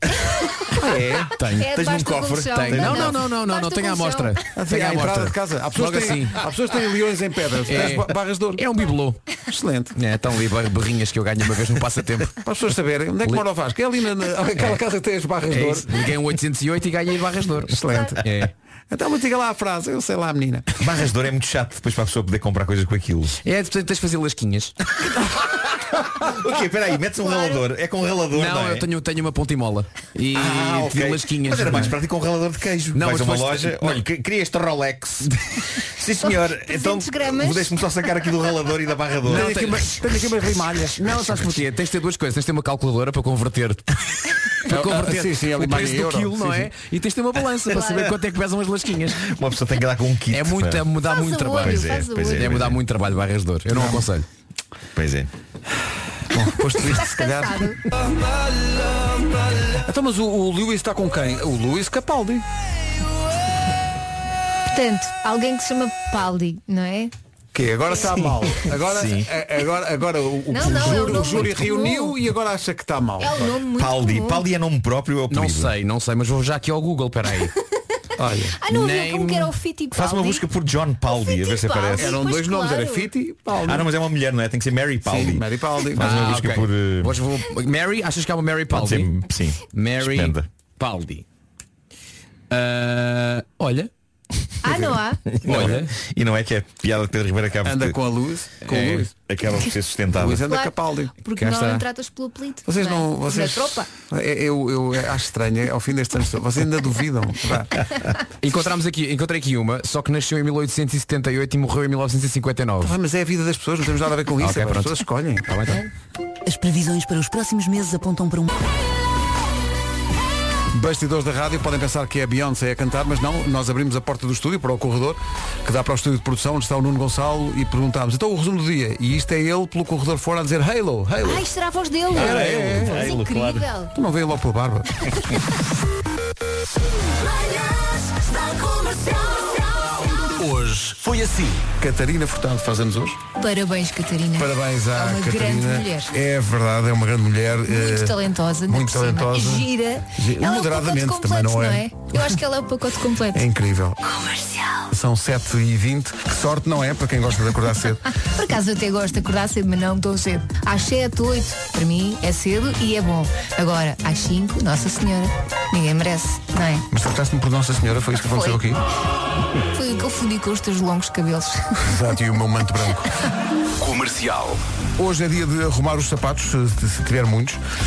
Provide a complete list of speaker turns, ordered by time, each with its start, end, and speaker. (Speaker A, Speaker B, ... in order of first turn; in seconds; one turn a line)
Speaker A: 0.2-0.7
Speaker B: 0.7-1.4
Speaker C: 1.4-1.7
Speaker A: 1.4-4.4
Speaker D: 1.6-3.2
Speaker C: 2.5-6.5
Speaker B: 4.5-8.6
Speaker C: 7.7-9.2
Speaker B: 9.5-10.0
Speaker C: 9.9-12.4
Speaker B: 12.4-16.1
Speaker C: 15.5-18.5
Speaker B: 17.7-18.2
Speaker B: 18.9-20.7
Speaker D: 20.8-23.4
Speaker C: 23.4-24.8
Speaker D: 26.1-28.9
Speaker A: 27.2-27.6
Speaker C: 28.3-32.0
Speaker D: 30.3-39.5
Speaker C: 32.9-34.1
Speaker A: 36.2-37.8
Speaker C: 39.2-40.0
Speaker B: 39.2-41.6
Speaker C: 41.0-49.3
Speaker B: 44.6-46.7
Speaker A: 47.7-48.1
Speaker D: 49.1-50.9
Speaker C: 50.3-54.2
Speaker A: 51.0-52.5
Speaker D: 51.6-52.8
Speaker B: 53.7-54.0
Speaker D: 54.9-55.3
Speaker B: 56.2-57.8
Speaker A: 56.8-57.8
Speaker B: 59.5-62.4
Speaker A: 64.7-67.1
Speaker B: 67.5-73.5
Speaker D: 68.8-69.3
Speaker A: 70.5-72.1
Speaker A: 73.2-74.5
Speaker D: 73.7-75.7
Speaker C: 75.3-77.5
Speaker B: 78.2-78.6
Speaker A: 78.6-80.5
Speaker C: 78.7-79.5
Speaker D: 79.9-82.2
Speaker A: 81.0-83.1
Speaker B: 82.0-83.9
Speaker D: 83.6-87.2
Speaker B: 85.0-86.1
Speaker C: 86.0-89.1
Speaker D: 88.7-90.4
Speaker C: 89.7-91.2
Speaker C: 92.5-93.9
Speaker A: 94.6-95.2
Speaker B: 94.7-95.9
Speaker D: 95.3-98.0
Speaker C: 95.4-95.9
Speaker B: 97.6-99.1
Speaker C: 98.6-99.1
Speaker D: 99.3-100.5
Speaker B: 100.1-101.9
Speaker A: 100.4-103.9
Speaker B: 102.7-107.9
Speaker C: 108.4-113.0
Speaker B: 112.8-115.8
Speaker C: 114.4-115.9
Speaker E: 116.4-118.5
Speaker B: 120.7-131.4
Speaker A: 131.2-133.9
Speaker B: 132.1-133.1
Speaker D: 132.1-133.7
Speaker B: 133.9-134.9
Speaker F: 138.0-141.7
Speaker B: 141.8-143.2
Speaker A: 143.4-146.1
Speaker B: 144.3-152.3
Speaker A: 147.7-153.4
Speaker B: 153.3-154.1
Speaker B: 154.9-158.1
Speaker A: 158.2-166.9
Speaker B: 166.9-168.8
Speaker A: 168.3-168.6
Speaker A: 169.7-171.9
Speaker B: 171.8-173.1
Speaker F: 173.8-174.6
Speaker B: 175.0-177.6